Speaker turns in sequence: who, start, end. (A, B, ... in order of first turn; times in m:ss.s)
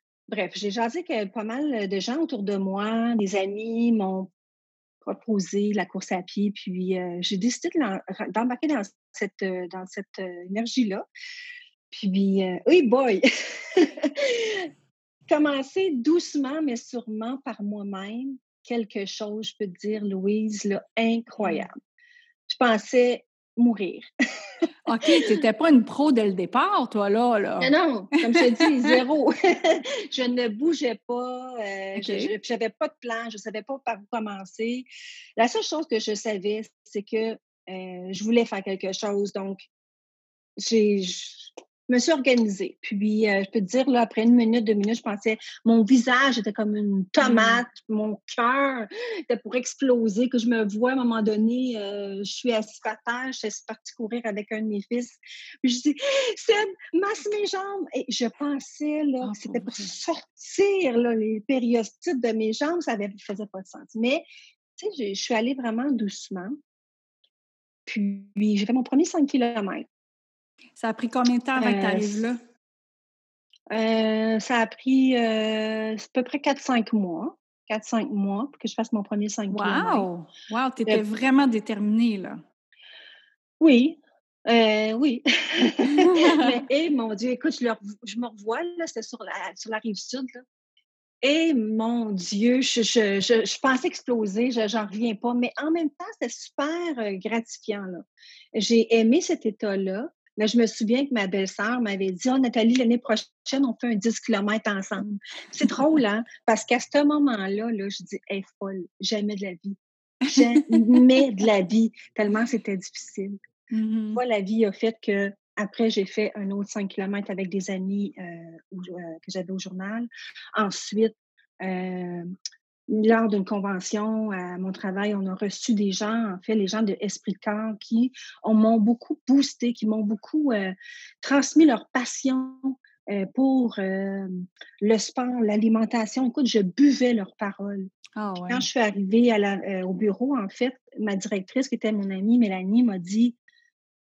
0:00.3-0:04.3 A
0:05.0-0:11.0 A
0:11.9-0:14.7 A
0:15.3-0:21.7 A
0:22.5-0:24.1 A
0:24.9-0:27.7 B
0:27.6-0:39.7 A
0:32.0-0:32.3 B
0:40.6-1:04.2 A
0:47.2-0:47.6 B
0:59.2-0:59.9 B
1:04.8-1:06.5 A
1:07.9-1:09.9 A
1:10.8-1:12.3 B
1:11.6-1:12.3 A
1:13.7-1:20.1 A
1:19.5-1:22.4 B
1:23.6-1:30.4 A
1:31.2-1:53.4 A
1:50.6-1:51.0 B
1:53.7-1:54.2 B
1:54.1-2:02.3 A
2:02.9-2:17.9 A
2:18.2-2:18.6 B
2:18.5-2:23.4 A